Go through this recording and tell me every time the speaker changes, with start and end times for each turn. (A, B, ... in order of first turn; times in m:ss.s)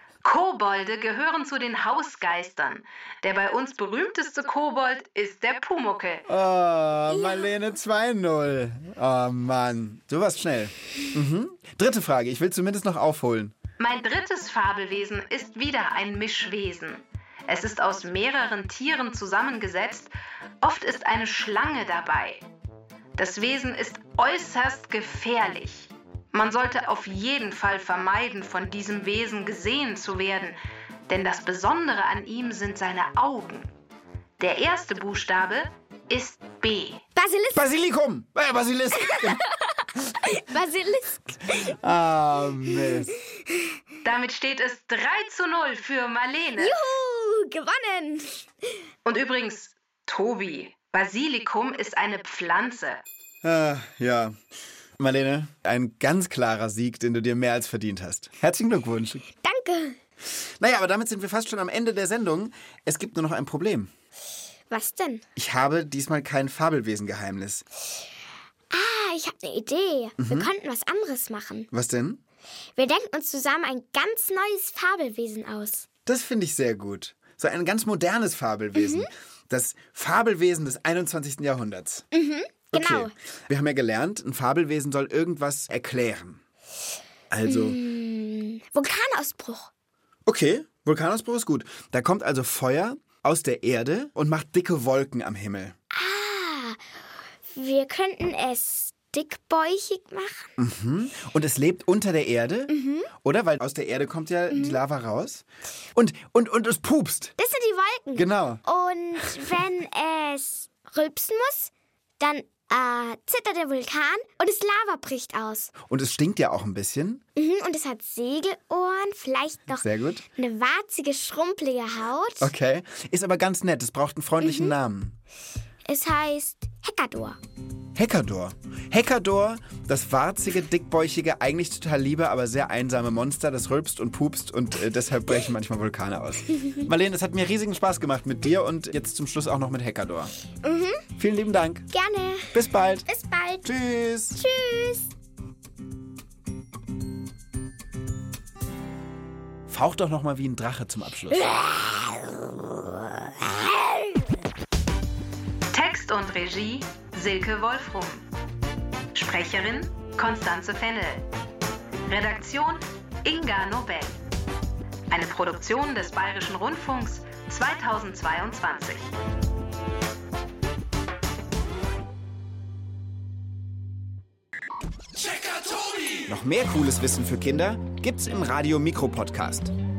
0:00.2-0:06.2 A
0:06.3-0:13.5 B
0:13.8-0:22.4 A
0:23.2-0:33.7 A
0:34.4-0:37.0 A
0:37.1-0:37.7 C
0:37.5-0:39.4 B
0:39.0-0:41.7 C
0:41.6-0:43.2 B
0:42.9-0:43.6 C
0:44.0-0:46.8 A
0:46.6-0:48.4 C
0:49.0-0:53.0 A
0:53.4-0:54.4 B
0:55.0-0:59.2 B
0:59.4-1:00.0 C
1:00.2-1:03.9 B
1:04.7-1:05.2 C
1:05.4-1:07.6 B
1:08.7-1:11.7 C
1:10.2-1:10.5 B
1:11.7-1:12.2 B
1:12.8-1:15.9 C
1:16.1-1:22.1 B
1:18.7-1:19.1 C
1:22.1-1:23.1 C
1:22.7-1:26.4 B
1:27.3-1:27.8 B
1:27.4-1:29.7 C
1:30.2-1:35.7 B
1:35.9-1:36.8 C
1:37.6-1:40.5 C
1:40.6-1:47.4 B
1:42.7-1:43.1 C
1:44.5-1:44.8 C
1:47.4-1:55.7 C
1:48.1-1:48.6 B
1:55.9-1:57.2 B
1:57.4-2:02.5 C
1:59.7-2:00.2 B
2:02.4-2:05.2 B
2:04.4-2:04.7 C
2:05.9-2:07.4 C
2:07.9-2:20.3 B
2:20.6-2:21.0 C
2:21.2-2:21.9 B
2:21.9-2:23.7 C
2:22.5-2:23.1 B
2:23.6-2:24.4 B
2:24.4-2:25.1 C
2:29.7-2:31.5 B
2:31.5-2:32.0 C
2:35.7-2:38.2 A
2:39.1-2:41.2 A
2:42.1-2:44.2 A
2:45.1-2:49.1 A
2:56.2-2:59.7 B